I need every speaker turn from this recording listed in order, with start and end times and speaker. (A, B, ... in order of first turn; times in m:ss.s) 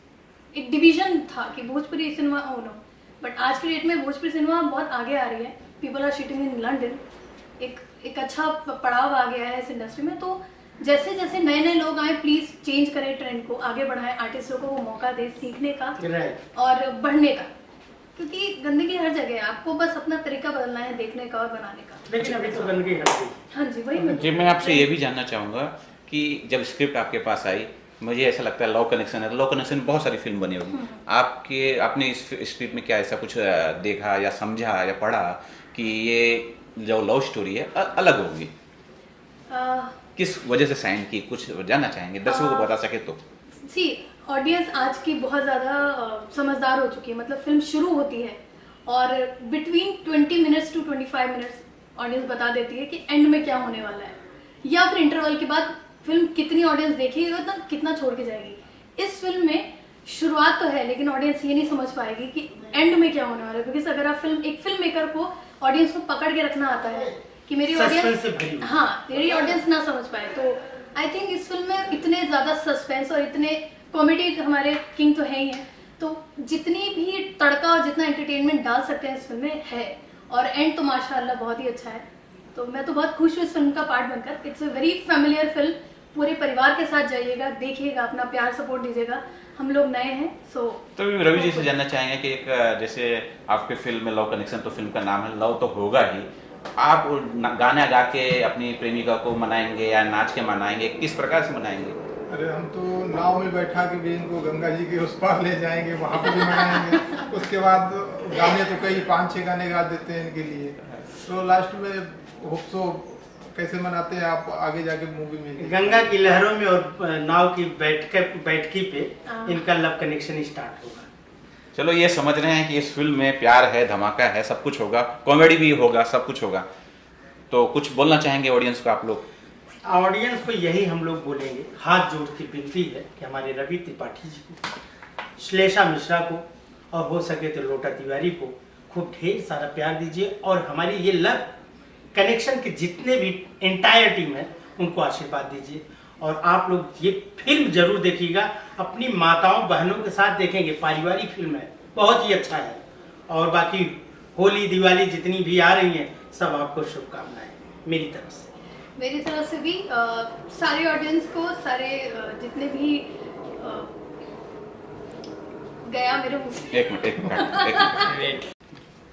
0:00.5-0:07.0 A
0:07.6-0:16.0 A
0:16.0-0:16.4 B
0:16.5-0:17.5 A
0:18.2-0:22.7 A
0:22.1-0:23.4 B
0:23.5-0:24.9 A
0:24.0-0:38.5 C
0:30.7-0:31.0 A
0:39.5-0:40.0 A
0:40.2-0:43.2 C
0:42.3-0:42.7 A
0:43.6-1:31.7 A
1:07.7-1:08.9 B
1:31.0-1:42.0 C
1:42.3-1:56.2 D
1:55.6-2:01.1 B
1:59.3-1:59.6 A
2:01.8-2:06.7 C
2:07.5-2:09.2 C
2:09.9-2:14.6 B
2:15.4-2:21.5 B
2:22.1-2:38.5 B
2:39.0-2:43.9 A
2:45.8-2:48.1 A
2:46.7-2:48.4 C